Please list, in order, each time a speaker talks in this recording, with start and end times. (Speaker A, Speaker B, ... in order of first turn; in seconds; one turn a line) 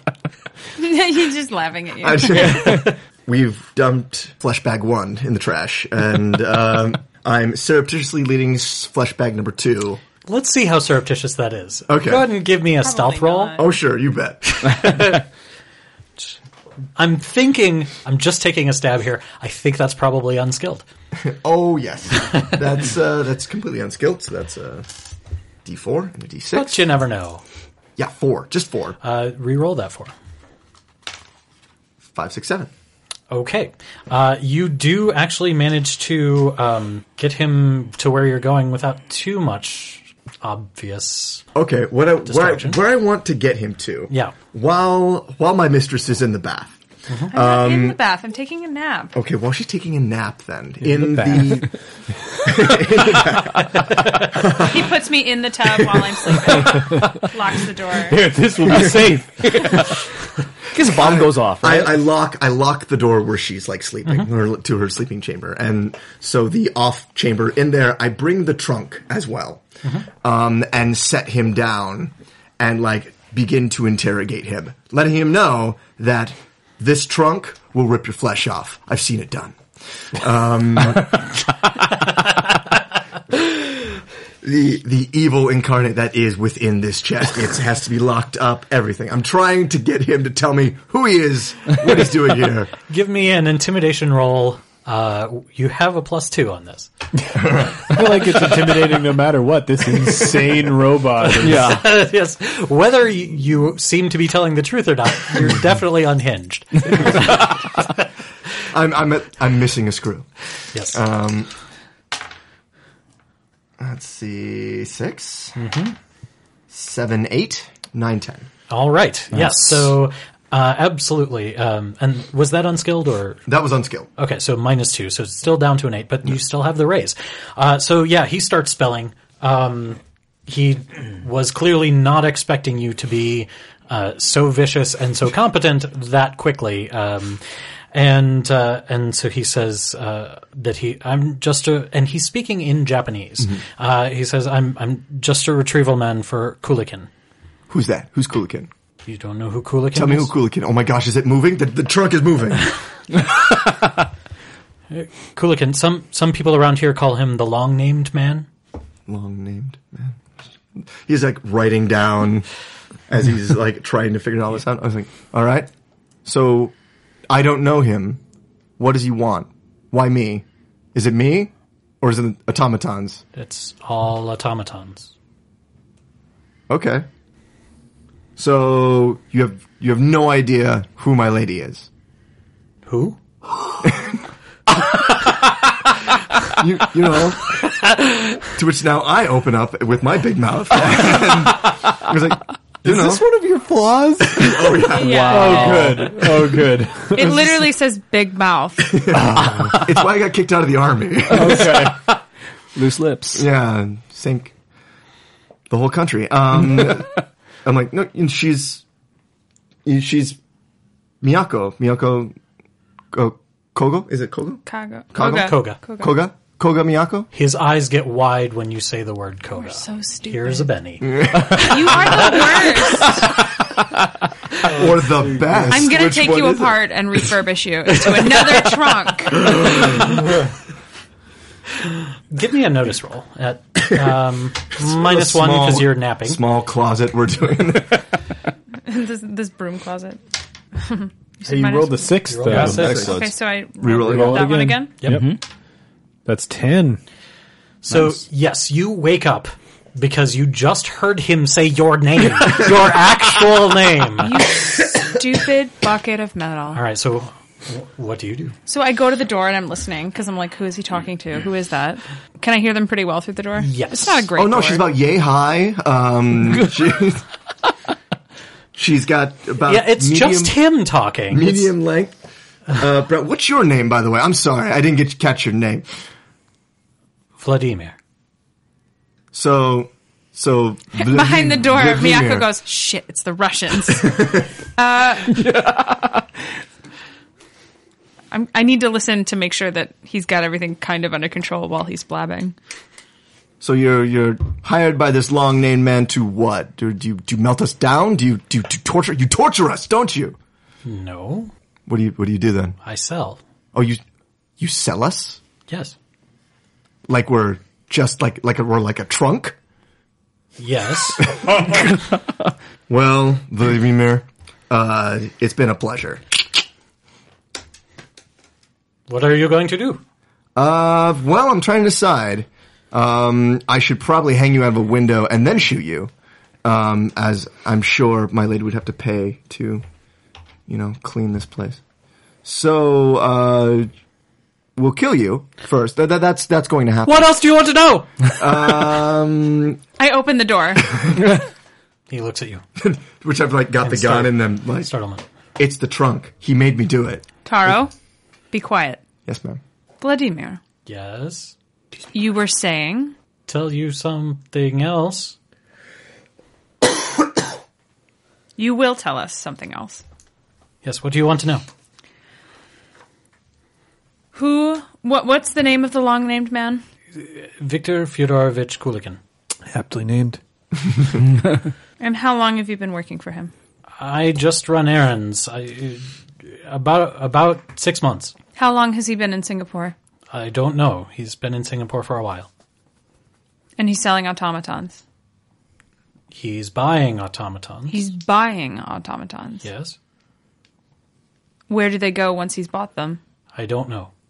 Speaker A: 0.8-2.8
Speaker B: 2.0-10.0
Speaker C: 10.3-13.6
Speaker B: 11.9-12.3
Speaker A: 12.8-13.7
Speaker B: 13.6-14.7
Speaker C: 14.5-15.2
Speaker C: 16.9-20.8
Speaker B: 21.2-24.9
Speaker B: 25.6-26.8
Speaker C: 26.5-27.4
Speaker B: 28.0-29.0
Speaker C: 29.0-30.1
Speaker B: 32.1-32.7
Speaker C: 33.3-41.4
Speaker B: 41.5-46.8
Speaker C: 42.2-42.8
Speaker C: 44.1-44.3
Speaker B: 47.3-48.0
Speaker A: 47.3-49.1
Speaker B: 49.1-51.7
Speaker D: 50.9-51.6
Speaker B: 52.4-54.8
Speaker A: 54.5-58.2
Speaker D: 56.6-57.1
Speaker D: 58.1-59.3
Speaker E: 58.6-59.9
Speaker E: 60.7-62.0
Speaker B: 60.8-69.6
Speaker B: 70.2-79.6
Speaker B: 80.1-81.1
Speaker B: 84.4-92.7
Speaker C: 92.9-96.9
Speaker B: 97.3-98.0
Speaker D: 97.9-101.7
Speaker C: 101.2-107.5
Speaker E: 101.4-101.9
Speaker B: 108.7-110.3
Speaker C: 110.7-111.0
Speaker B: 110.9-111.5
Speaker B: 113.8-115.6
Speaker C: 115.6-116.0
Speaker B: 116.7-118.5
Speaker C: 118.7-123.4
Speaker B: 123.5-124.1
Speaker C: 124.2-147.1
Speaker B: 147.7-148.7
Speaker C: 149.1-150.3
Speaker B: 149.9-152.7
Speaker C: 154.9-158.5
Speaker B: 159.1-160.2
Speaker B: 160.7-162.4
Speaker B: 163.1-165.7
Speaker B: 166.2-166.7
Speaker B: 167.3-168.2
Speaker B: 168.8-173.2
Speaker C: 173.3-175.1
Speaker B: 176.7-177.1
Speaker B: 178.4-181.9
Speaker C: 182.8-183.2
Speaker B: 183.8-184.2
Speaker B: 186.4-187.6
Speaker B: 188.4-193.2
Speaker D: 192.8-194.7
Speaker B: 194.3-195.5
Speaker A: 194.9-196.2
Speaker E: 195.0-196.4
Speaker D: 195.3-197.6
Speaker A: 197.1-199.1
Speaker B: 198.9-201.8
Speaker D: 201.3-202.0
Speaker E: 201.4-202.1
Speaker E: 202.8-203.4
Speaker B: 203.3-204.5
Speaker B: 205.7-208.8
Speaker B: 209.8-210.4
Speaker B: 211.2-212.3
Speaker B: 213.1-214.6
Speaker A: 214.7-216.2
Speaker B: 215.1-217.3
Speaker C: 215.2-215.8
Speaker C: 217.3-222.5
Speaker A: 219.6-220.7
Speaker B: 221.0-222.1
Speaker A: 221.6-223.3
Speaker B: 224.6-226.8
Speaker D: 225.3-225.7
Speaker A: 225.7-229.7
Speaker B: 229.5-229.8
Speaker C: 232.3-236.4
Speaker B: 234.8-238.0
Speaker A: 238.8-240.2
Speaker A: 240.7-245.0
Speaker D: 241.4-243.2
Speaker C: 242.2-243.1
Speaker E: 242.5-242.9
Speaker B: 242.7-243.3
Speaker B: 243.8-244.5
Speaker D: 244.0-245.4
Speaker E: 245.1-245.4
Speaker D: 246.2-247.0
Speaker C: 247.8-254.4
Speaker A: 254.2-256.8
Speaker C: 256.7-258.6
Speaker A: 258.7-264.9
Speaker C: 263.6-264.2
Speaker B: 264.4-267.2
Speaker B: 268.7-270.6
Speaker C: 269.6-271.7
Speaker B: 271.3-272.1
Speaker B: 272.7-276.0
Speaker C: 277.4-277.9
Speaker B: 279.3-282.5
Speaker A: 281.0-285.4
Speaker B: 284.0-284.4
Speaker E: 285.5-286.2
Speaker A: 288.3-292.5
Speaker B: 293.6-300.4
Speaker C: 300.8-301.5
Speaker B: 301.9-302.8
Speaker C: 302.8-303.4
Speaker B: 303.7-304.0
Speaker B: 304.6-305.4
Speaker C: 305.7-305.9
Speaker B: 307.1-309.6
Speaker C: 310.6-311.7
Speaker B: 312.9-316.4
Speaker C: 319.1-320.0
Speaker B: 320.6-326.1
Speaker B: 326.6-329.8
Speaker B: 330.7-331.8
Speaker B: 332.4-333.9
Speaker B: 334.8-337.3
Speaker C: 337.1-338.4
Speaker B: 338.4-339.8
Speaker A: 340.0-341.1
Speaker C: 342.1-342.6
Speaker B: 342.8-344.9
Speaker C: 343.8-345.2
Speaker B: 345.6-347.7
Speaker A: 347.4-347.9
Speaker A: 348.5-349.0
Speaker B: 349.2-349.6
Speaker A: 350.0-350.6
Speaker C: 350.9-351.5
Speaker A: 352.1-353.1
Speaker C: 353.5-355.4
Speaker A: 358.6-360.0
Speaker C: 360.8-361.6
Speaker A: 364.3-366.8
Speaker C: 367.1-369.2
Speaker D: 369.7-370.4
Speaker A: 372.0-373.5
Speaker C: 374.0-378.3
Speaker A: 378.6-379.9
Speaker C: 380.3-382.5
Speaker A: 383.8-385.0
Speaker C: 386.3-388.0
Speaker A: 387.9-389.6
Speaker C: 389.6-389.9
Speaker A: 391.7-393.2
Speaker C: 393.5-394.1